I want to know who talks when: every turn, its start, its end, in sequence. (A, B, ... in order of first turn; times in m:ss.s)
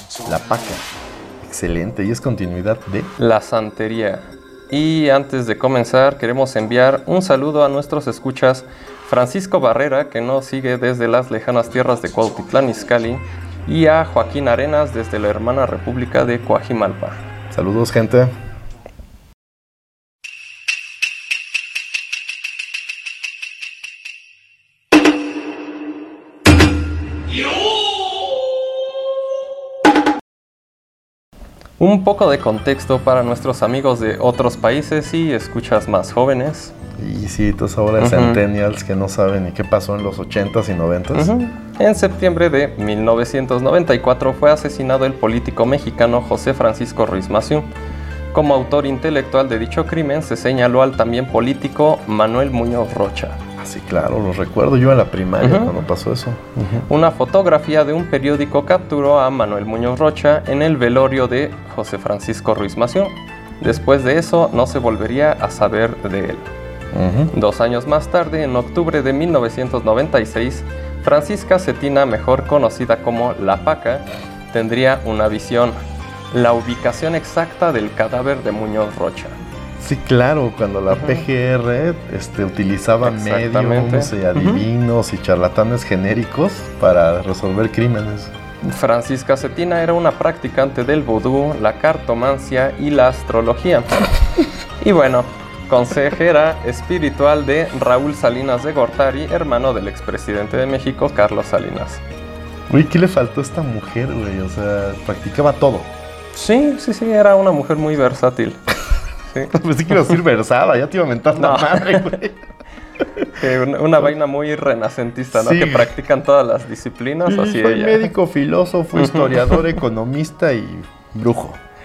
0:00.2-0:00.8 A
0:01.4-0:03.1 A
0:03.2-0:17.2 B
0:17.5-0:18.3 A
0:31.8-0:36.7 B
0:37.0-0:41.3 A
0:38.0-0:38.4 B
0:41.1-0:47.7 B
0:48.3-0:53.4 B
0:53.6-0:56.9 A
0:55.4-0:55.7 B
0:56.8-1:06.5 B
1:06.9-1:07.3 A
1:07.3-1:15.7 B
1:16.3-1:19.4 B
1:19.8-1:28.3 A
1:20.9-1:21.2 B
1:23.0-1:24.7 B
1:28.6-1:34.1 B
1:34.8-1:42.0 B
1:42.7-1:45.9 A
1:46.3-1:48.6 B
1:49.5-1:52.4 A
1:51.4-1:52.1 B
1:53.3-1:58.1 B
1:55.3-1:55.9 A
1:57.2-2:01.6 A
1:58.9-1:59.8 B